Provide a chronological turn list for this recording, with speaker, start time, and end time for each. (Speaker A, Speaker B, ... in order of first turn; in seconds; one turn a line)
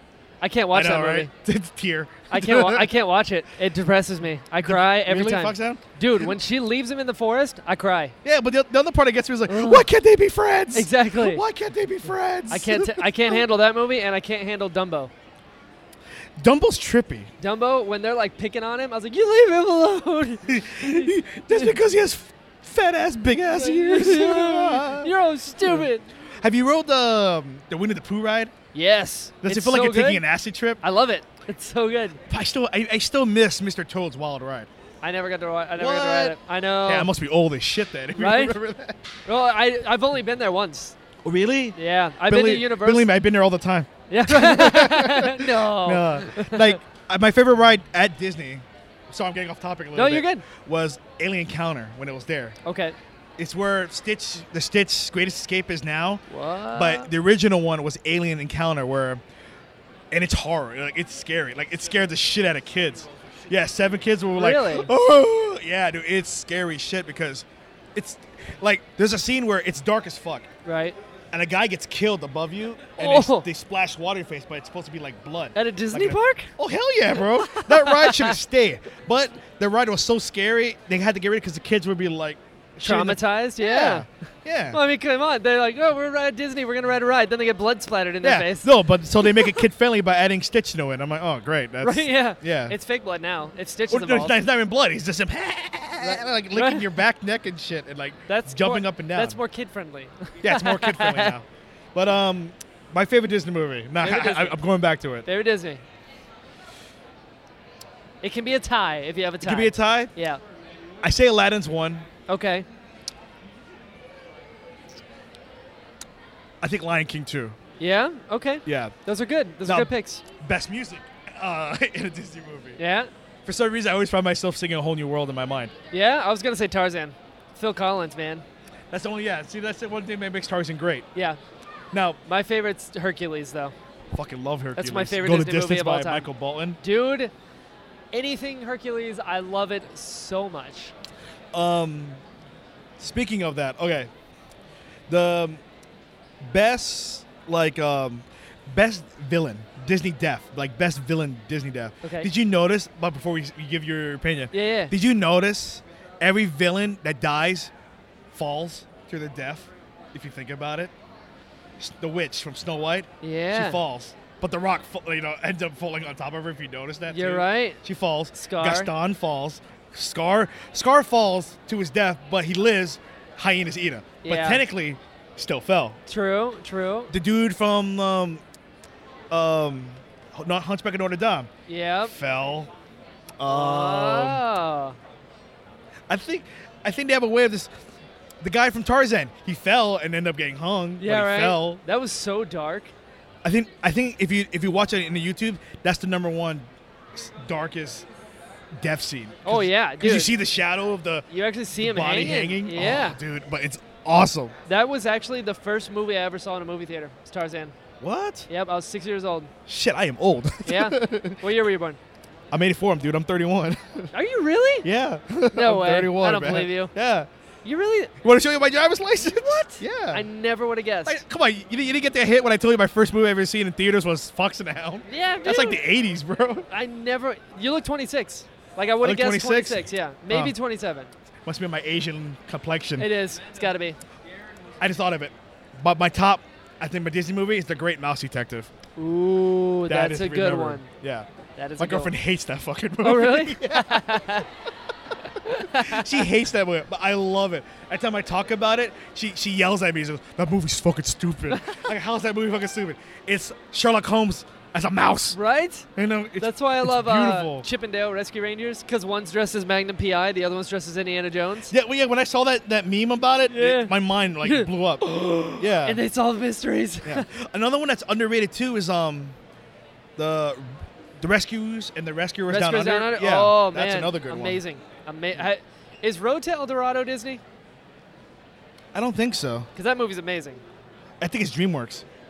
Speaker A: 0.4-1.3
Speaker B: 0.7-2.9
Speaker A: 2.3-8.2
Speaker B: 4.6-6.3
Speaker B: 8.2-13.4
Speaker A: 9.5-9.9
Speaker A: 10.7-11.4
Speaker A: 12.5-15.1
Speaker B: 16.4-17.3
Speaker A: 17.4-21.7
Speaker B: 20.5-25.1
Speaker A: 23.5-26.1
Speaker B: 25.6-28.5
Speaker A: 28.7-30.2
Speaker B: 29.4-30.8
Speaker A: 30.8-32.2
Speaker B: 32.3-34.7
Speaker A: 35.0-37.1
Speaker B: 35.8-39.0
Speaker A: 38.2-38.6
Speaker A: 39.3-41.0
Speaker B: 41.2-52.6
Speaker A: 41.8-43.1
Speaker A: 44.1-46.8
Speaker A: 50.0-50.5
Speaker A: 52.6-53.0
Speaker B: 53.4-59.2
Speaker A: 56.3-57.1
Speaker B: 60.1-70.5
Speaker A: 64.3-64.9
Speaker A: 70.7-71.0
Speaker B: 71.3-84.8
Speaker A: 73.0-73.5
Speaker A: 75.5-76.5
Speaker A: 77.2-78.4
Speaker A: 82.8-84.1
Speaker A: 84.7-89.6
Speaker B: 88.2-92.8
Speaker A: 91.8-94.4
Speaker B: 93.9-99.4
Speaker A: 96.0-97.0
Speaker A: 98.3-101.4
Speaker B: 100.4-105.3
Speaker A: 104.0-104.6
Speaker A: 105.2-105.8
Speaker A: 108.2-110.4
Speaker B: 109.4-110.1
Speaker B: 111.0-112.1
Speaker A: 112.3-112.7
Speaker B: 116.6-117.6
Speaker A: 117.8-120.2
Speaker B: 118.7-119.0
Speaker B: 119.6-122.8
Speaker A: 122.8-123.1
Speaker B: 123.5-125.7
Speaker A: 125.9-128.4
Speaker B: 128.9-131.1
Speaker B: 131.9-132.2
Speaker A: 132.3-133.8
Speaker B: 134.1-136.8
Speaker A: 134.8-136.3
Speaker A: 136.8-137.3
Speaker A: 138.1-140.9
Speaker B: 141.5-142.2
Speaker B: 143.0-144.1
Speaker B: 145.1-145.6
Speaker B: 146.4-157.7
Speaker A: 152.0-152.3
Speaker A: 154.5-154.9
Speaker B: 158.3-160.9
Speaker B: 161.8-176.0
Speaker A: 163.2-163.8
Speaker A: 167.1-167.8
Speaker A: 168.3-168.9
Speaker A: 174.2-174.6
Speaker A: 176.1-177.1
Speaker B: 177.1-178.4
Speaker B: 179.3-181.5
Speaker A: 181.7-182.1
Speaker B: 182.1-182.7
Speaker B: 183.4-184.4
Speaker A: 183.5-185.0
Speaker B: 186.1-187.7
Speaker B: 188.4-191.8
Speaker A: 191.0-192.9
Speaker B: 193.4-198.1
Speaker B: 198.8-204.6
Speaker A: 199.4-200.3
Speaker A: 201.3-203.2
Speaker A: 204.7-207.8
Speaker B: 208.0-208.5
Speaker A: 208.5-209.5
Speaker B: 209.7-211.4
Speaker A: 210.7-212.0
Speaker B: 212.5-214.1
Speaker A: 214.1-214.9
Speaker B: 214.8-217.3
Speaker A: 215.5-216.9
Speaker A: 217.7-218.1
Speaker B: 218.2-220.3
Speaker A: 219.2-221.2
Speaker B: 221.1-226.7
Speaker A: 225.1-225.8
Speaker A: 226.7-231.1
Speaker B: 229.0-230.6
Speaker B: 231.4-233.2
Speaker A: 233.0-234.0
Speaker B: 234.8-238.7
Speaker A: 239.0-240.9
Speaker B: 239.9-241.3
Speaker A: 241.6-242.1
Speaker B: 241.8-244.3
Speaker A: 243.0-244.5
Speaker A: 245.3-246.2
Speaker B: 245.6-255.4
Speaker A: 251.5-251.9
Speaker A: 255.3-255.9
Speaker B: 256.0-257.7
Speaker A: 256.4-261.7
Speaker B: 261.7-265.0
Speaker A: 263.5-267.3
Speaker B: 265.6-266.0
Speaker B: 267.0-269.4
Speaker B: 270.2-274.6
Speaker A: 272.5-277.4
Speaker B: 278.9-279.7
Speaker A: 279.8-280.6
Speaker B: 281.2-282.1